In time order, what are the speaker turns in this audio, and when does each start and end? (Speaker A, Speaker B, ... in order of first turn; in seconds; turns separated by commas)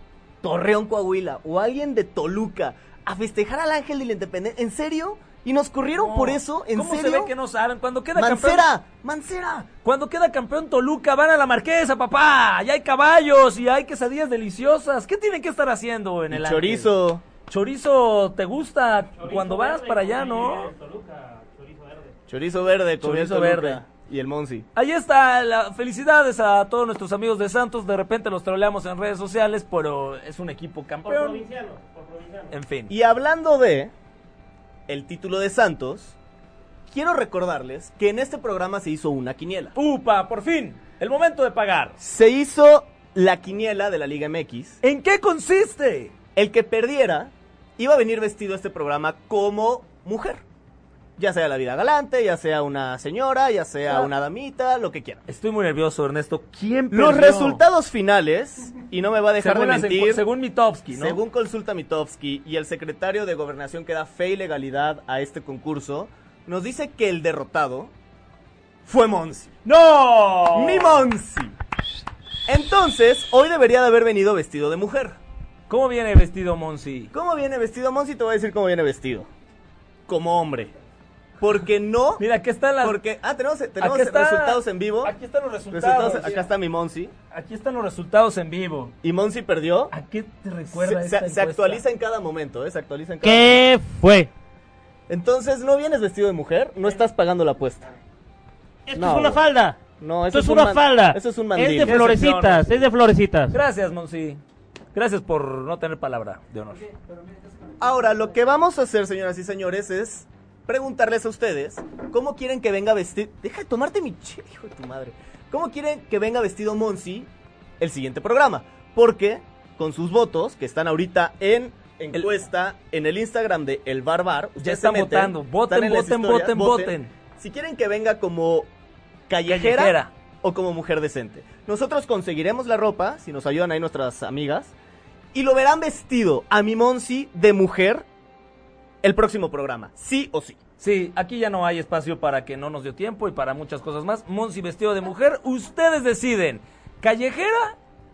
Speaker A: 0.4-7.3, Speaker B: 6.0-8.6, Speaker A: 8.2-9.7, Speaker B: 9.8-16.9, Speaker A: 16.3-17.2, Speaker B: 17.5-20.7, Speaker C: 19.2-22.1, Speaker A: 22.3-24.6, Speaker B: 23.0-23.8, Speaker B: 24.8-31.4, Speaker C: 31.1-32.5, Speaker B: 32.5-32.9, Speaker A: 32.9-33.9, Speaker A: 34.9-36.1, Speaker A: 36.9-39.8, Speaker B: 39.8-42.0, Speaker A: 42.0-44.8, Speaker B: 44.8-46.1, Speaker A: 46.4-50.4, Speaker A: 51.2-55.2, Speaker B: 55.3-57.6, Speaker A: 56.9-60.2, Speaker B: 59.4-61.2, Speaker A: 60.9-67.9, Speaker A: 68.8-69.6, Speaker B: 69.6-71.1, Speaker A: 70.5-71.5, Speaker A: 72.5-75.2, Speaker B: 75.7-77.1, Speaker A: 77.1-79.3, Speaker A: 80.1-80.7, Speaker A: 81.4-82.2, Speaker B: 82.2-83.0, Speaker A: 82.8-85.1, Speaker B: 83.8-86.5, Speaker A: 85.7-87.1, Speaker B: 87.3-88.9, Speaker A: 89.0-89.9, Speaker B: 89.9-91.8, Speaker A: 90.7-93.6, Speaker C: 93.2-94.3, Speaker A: 95.1-97.9, Speaker C: 98.9-99.8, Speaker A: 98.9-99.4, Speaker A: 100.0-102.5, Speaker C: 100.3-103.6, Speaker B: 101.8-102.7, Speaker B: 103.5-104.4, Speaker B: 104.9-106.9, Speaker A: 107.8-128.7, Speaker B: 124.6-127.1, Speaker A: 129.3-134.7, Speaker B: 129.5-130.1, Speaker A: 135.3-138.1, Speaker A: 139.0-140.6, Speaker B: 140.8-147.8